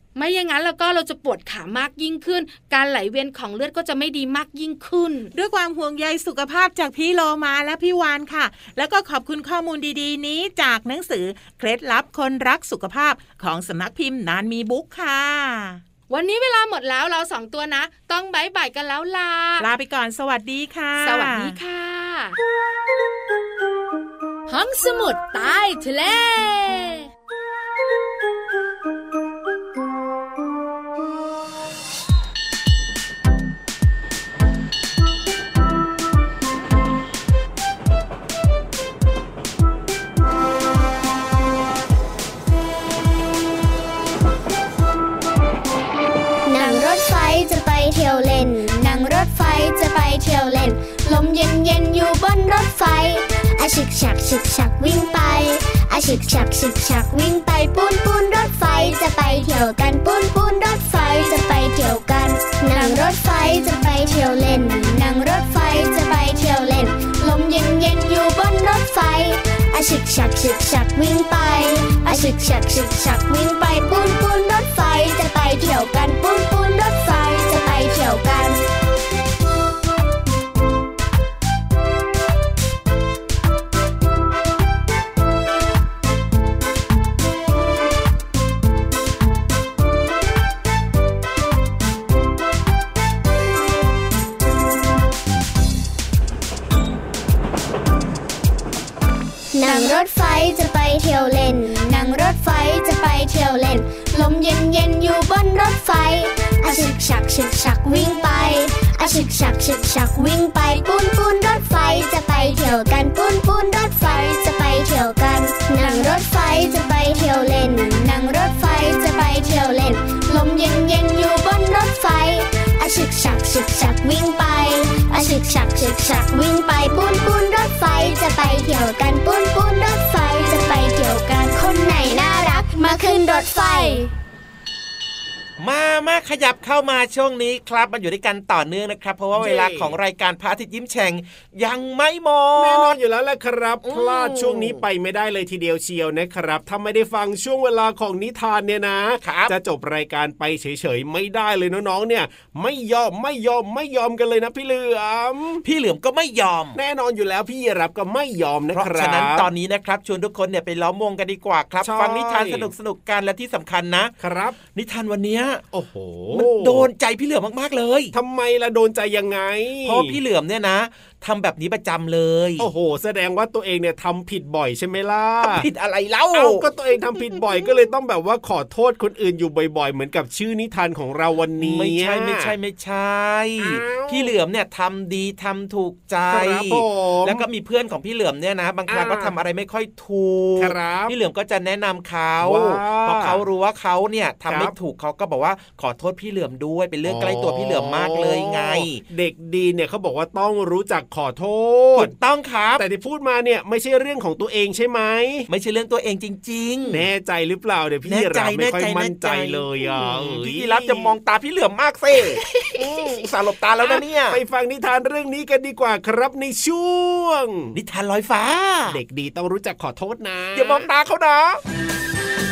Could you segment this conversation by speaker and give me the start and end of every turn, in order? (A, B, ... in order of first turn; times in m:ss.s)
0:00.1-0:05.3 A
0:05.3-0:15.8 B
0:16.1-0:19.6 A
0:19.6-0:21.6 B
0:21.0-0:22.4 A
0:24.5-0:27.1 A
0:46.4-1:18.6 C
1:39.5-2:14.1 C
2:15.6-2:23.0 D
2:19.3-2:20.0 E
2:22.6-2:35.6 E
2:23.8-2:24.8 D
2:29.2-2:29.5 D
2:35.6-2:36.8 D
2:36.7-2:39.5 E
2:38.7-2:44.1 D
2:41.8-2:42.7 E
2:44.2-2:44.6 E
2:44.7-2:45.6 D
2:45.7-2:46.9 E
2:46.3-2:48.1 D
2:48.1-2:50.1 E
2:49.8-2:52.7 D
2:52.6-2:55.7 E
2:55.4-2:56.6 D
2:56.3-3:02.5 E
3:01.6-3:19.0 D
3:03.6-3:04.3 E
3:06.3-3:07.4 E
3:08.9-3:09.3 E
3:10.6-3:11.1 E
3:12.4-3:13.4 E
3:14.5-3:14.7 E
3:17.0-3:22.1 E
3:22.0-3:22.8 D
3:22.8-3:25.5 E
3:25.5-3:27.0 D
3:26.9-3:31.1 E
3:28.1-3:34.4 D
3:32.8-3:33.1 E
3:33.9-3:37.8 E
3:37.7-3:39.0 D
3:38.9-3:40.9 E
3:40.5-3:41.6 D